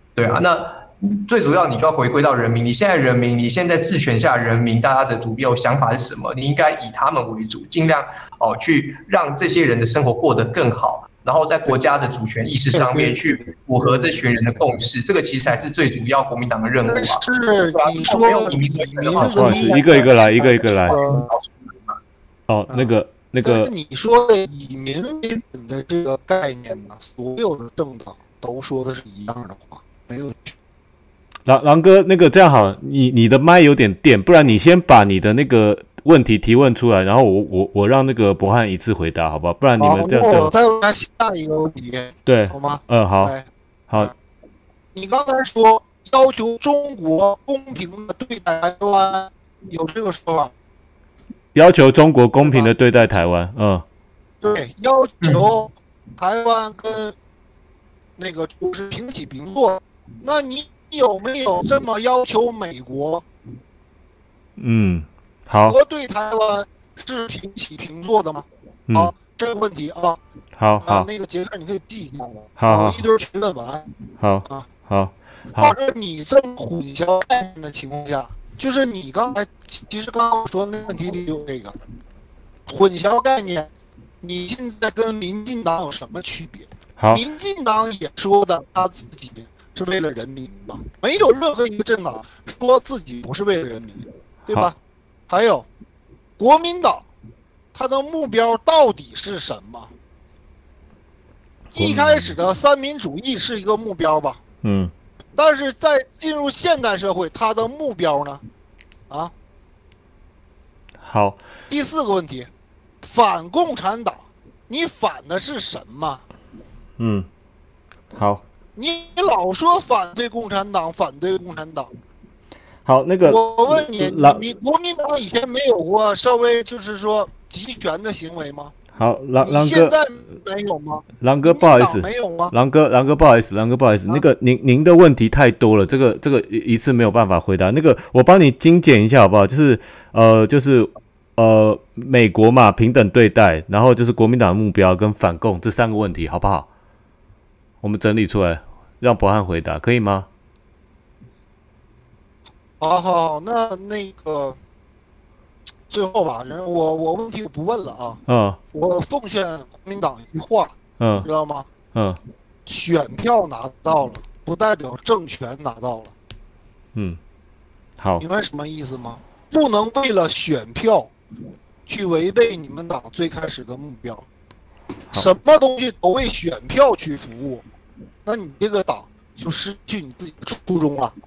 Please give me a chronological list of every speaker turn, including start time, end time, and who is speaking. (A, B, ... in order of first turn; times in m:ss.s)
0:00.1-0:22.0 A
0:12.7-0:13.2 B
0:16.9-0:21.2 B
0:19.2-0:21.0 C
0:22.5-0:23.7 C
0:22.7-0:30.5 B
0:31.4-0:40.5 C
0:39.8-0:44.1 B
0:42.2-0:43.3 C
0:44.9-0:50.5 B
0:51.5-0:53.8 C
0:52.4-0:52.7 B
0:54.4-0:57.1 B
0:58.2-1:03.2 B
1:04.6-1:05.8 C
1:05.6-1:10.2 B
1:08.9-1:09.1 C
1:10.6-1:11.1 C
1:10.8-1:13.8 B
1:12.6-1:13.0 C
1:14.2-1:15.8 C
1:15.6-1:21.8 B
1:22.7-1:23.7 B
1:24.2-1:34.8 B
1:27.0-1:27.2 C
1:35.3-1:35.7 B
1:36.4-1:37.0 B
1:37.7-1:39.9 B
1:41.7-1:42.4 C
1:41.7-1:44.4 B
1:44.6-1:44.9 C
1:45.4-1:48.4 B
1:51.0-1:51.4 C
1:51.7-1:52.5 B
1:53.0-1:56.2 B
1:57.0-1:57.3 C
1:58.1-1:58.4 C
1:58.8-2:01.9 B
2:02.8-2:04.4 C
2:03.2-2:08.7 B
2:08.9-2:10.0 C
2:09.4-2:12.5 B
2:11.2-2:26.7 C
2:27.8-2:30.3 C
2:32.8-2:34.6 B
2:35.9-2:38.2 B
2:38.3-2:38.6 C
2:38.7-2:41.7 B
2:41.0-2:41.3 C
2:41.9-2:42.2 C
2:42.6-2:46.1 B
2:48.0-2:48.2 C
2:48.2-2:51.1 B
2:51.9-2:54.3 B
2:55.1-2:57.6 B
2:58.2-3:01.1 B